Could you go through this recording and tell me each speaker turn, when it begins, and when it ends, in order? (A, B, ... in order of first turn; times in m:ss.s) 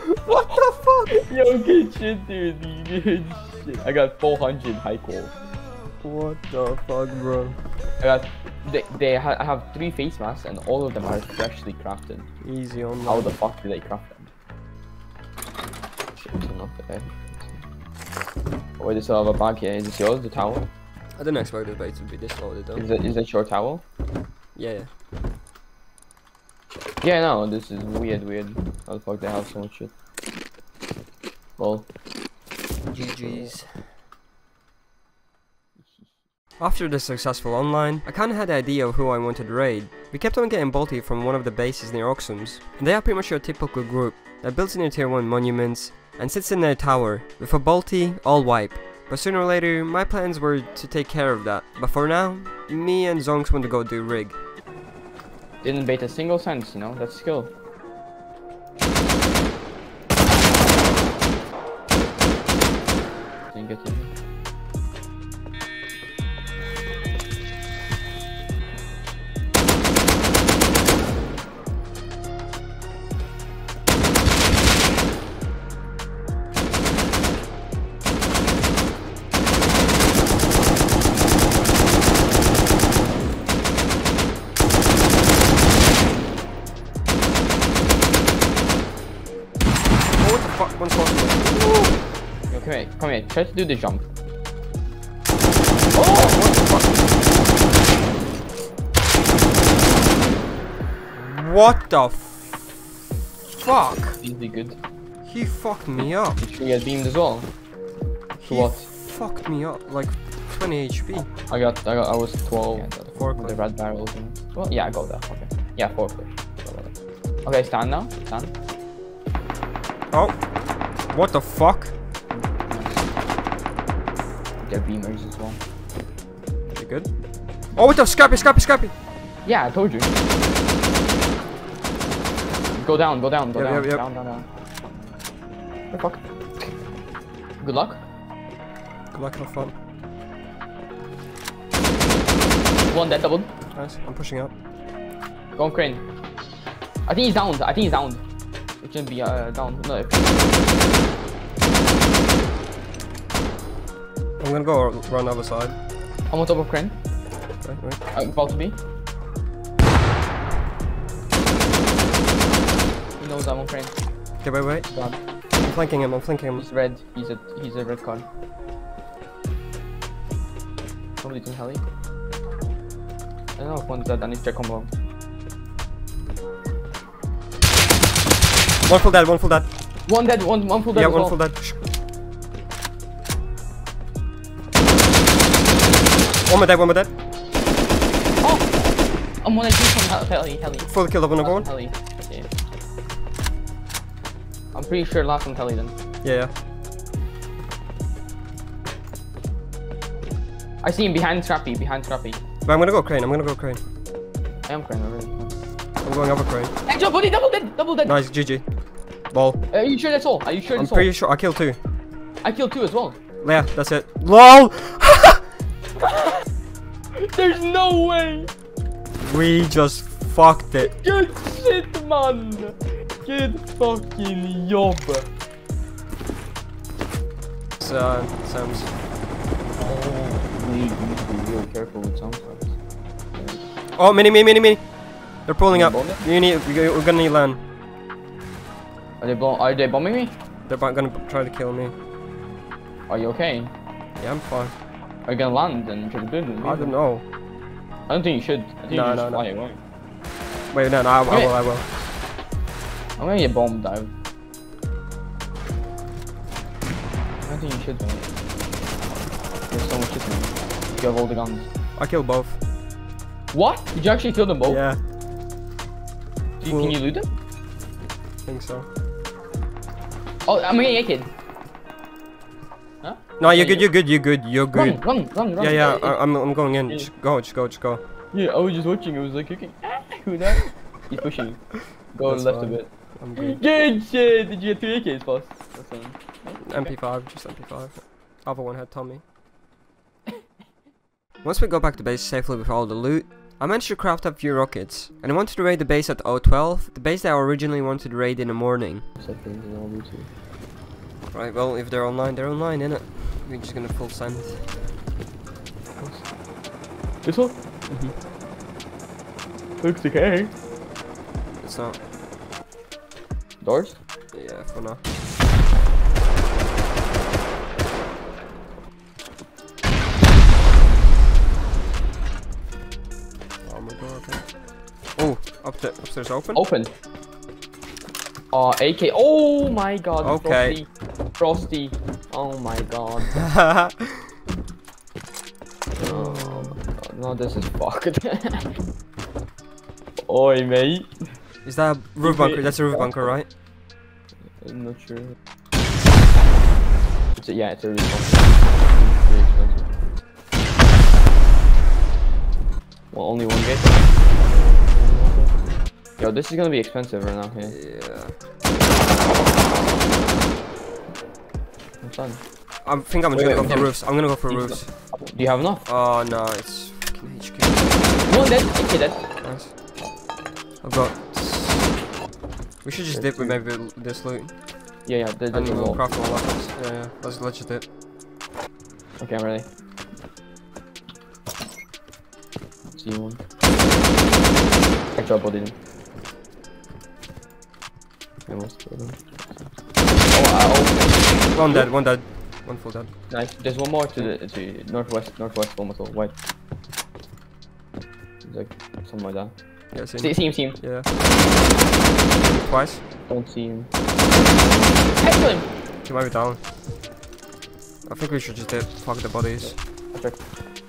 0:00.2-0:01.2 A
0:01.1-0:05.4 B
0:06.0-0:07.7 A
0:08.0-0:12.3 B
0:12.4-0:13.4 A
0:13.0-0:14.3 B
0:16.1-0:17.6 B
0:18.8-0:20.7 B
0:21.2-0:22.8 A
0:22.8-0:23.8 B
0:24.6-0:24.9 A
0:27.0-0:29.9 B
0:31.6-0:31.9 B
0:32.9-0:33.9 A
0:33.2-0:33.5 B
0:36.6-0:54.4 A
0:55.6-0:57.5 B
1:03.5-1:04.1 B
1:30.1-1:31.9 A
1:32.5-1:34.1 B
1:35.9-1:36.4 B
1:36.1-1:37.0 A
1:41.1-1:42.6 A
1:43.5-1:44.2 A
1:44.2-1:44.8 B
1:45.2-1:46.4 A
1:46.4-1:47.5 B
1:48.4-1:51.3 A
1:48.4-1:48.9 B
1:51.5-1:58.5 B
1:53.1-1:53.6 A
2:00.1-2:00.5 A
2:01.0-2:01.9 A
2:02.3-2:03.0 B
2:04.6-2:05.6 B
2:06.8-2:07.1 A
2:07.8-2:08.9 A
2:09.4-2:10.1 B
2:12.8-2:14.5 B
2:13.6-2:14.0 A
2:15.9-2:16.7 B
2:17.6-2:18.0 B
2:19.1-2:19.8 A
2:22.9-2:23.5 B
2:23.7-2:24.5 A
2:25.6-2:26.0 B
2:27.1-2:28.2 B
2:28.8-2:30.9 B
2:34.4-2:35.8 A
2:36.3-2:37.0 B
2:37.6-2:38.0 A
2:38.1-2:38.8 B
2:43.2-2:43.9 B
2:44.4-2:44.9 A
2:44.9-2:45.2 B
2:45.6-2:46.7 A
2:46.6-2:48.2 B
2:51.2-2:51.8 B
2:53.6-2:54.9 B
2:58.8-2:59.7 A
3:00.1-3:01.4 B
3:00.9-3:01.8 A
3:06.4-3:07.1 A
3:08.4-3:12.5 B
3:10.8-3:11.7 A
3:14.7-3:16.0 B
3:16.2-3:16.5 A
3:20.8-3:22.4 B
3:22.6-3:23.8 A
3:24.6-3:25.5 B
3:26.0-3:26.7 A
3:26.9-3:28.2 B
3:28.1-3:28.6 A
3:29.3-3:29.6 A
3:29.7-3:31.1 B
3:30.7-3:31.8 A
3:32.4-3:33.2 B
3:33.4-3:35.4 A
3:36.0-3:36.4 B
3:37.1-3:38.5 B
3:39.3-3:40.9 A
3:40.8-3:45.3 B
3:47.8-3:48.9 A
3:49.8-3:52.8 B
3:53.3-3:53.6 B
3:54.0-3:54.9 A
3:55.4-3:57.6 A
3:55.7-3:56.2 B
3:59.2-4:00.4 B
4:00.6-4:01.9 A
4:03.1-4:03.7 B
4:04.2-4:04.7 A
4:05.3-4:07.0 B
4:06.6-4:07.2 A
4:08.1-4:09.8 B
4:08.9-4:09.4 A
4:10.7-4:11.9 A
4:11.3-4:11.6 B
4:13.2-4:14.1 B
4:17.4-4:18.3 B
4:19.7-4:21.7 B
4:22.0-4:22.6 A
4:23.5-4:24.8 B
4:24.6-4:25.0 A
4:26.6-4:27.3 B
4:26.6-4:27.0 A
4:28.4-4:28.9 A
4:30.5-4:31.3 B
4:33.0-4:33.9 B
4:33.4-4:35.0 A
4:34.7-4:36.2 B
4:35.6-4:38.0 A
4:38.3-4:46.9 B
4:42.2-4:43.9 A
4:46.6-4:49.2 A
4:51.4-4:59.1 A
4:59.2-5:00.3 B
5:01.3-5:04.8 A
5:06.0-5:06.3 B
5:07.2-5:07.6 B
5:07.9-5:08.2 A
5:09.8-5:10.6 B
5:11.5-5:12.0 A
5:13.6-5:14.0 B
5:14.3-5:15.0 A
5:23.6-5:24.5 A
5:25.2-5:26.6 A
5:26.5-5:26.9 B
5:28.5-5:33.5 B
5:30.2-5:30.8 A
5:33.4-5:34.3 A
5:36.0-5:38.8 B
5:36.0-5:36.8 A
5:40.2-5:41.3 B
5:41.6-5:43.5 A
5:42.2-5:43.4 B
5:44.5-5:45.4 B
5:47.4-5:49.9 B
5:53.1-5:54.1 B
5:54.9-5:55.5 B
5:56.2-5:57.8 B
5:57.6-5:58.4 A
6:02.0-6:02.4 B
6:02.8-6:04.9 A
6:03.3-6:05.8 B
6:05.8-6:08.3 A
6:08.3-6:09.2 B
6:09.4-6:09.8 A
6:10.8-6:12.0 A
6:12.8-6:14.6 A
6:13.1-6:13.6 B
6:15.0-6:16.1 B
6:15.5-6:17.8 A
6:19.2-6:19.7 B
6:22.9-6:23.4 B
6:25.2-6:25.8 B
6:28.5-6:29.4 B
6:30.2-6:31.9 B
6:31.5-6:33.1 A
6:33.3-6:36.3 B
6:38.4-6:40.8 B
6:39.9-6:41.1 A
6:42.3-6:43.0 A
6:43.3-6:43.9 B
6:45.2-6:45.7 B
6:46.0-6:46.6 A
6:48.0-6:49.8 A
6:49.6-6:50.4 B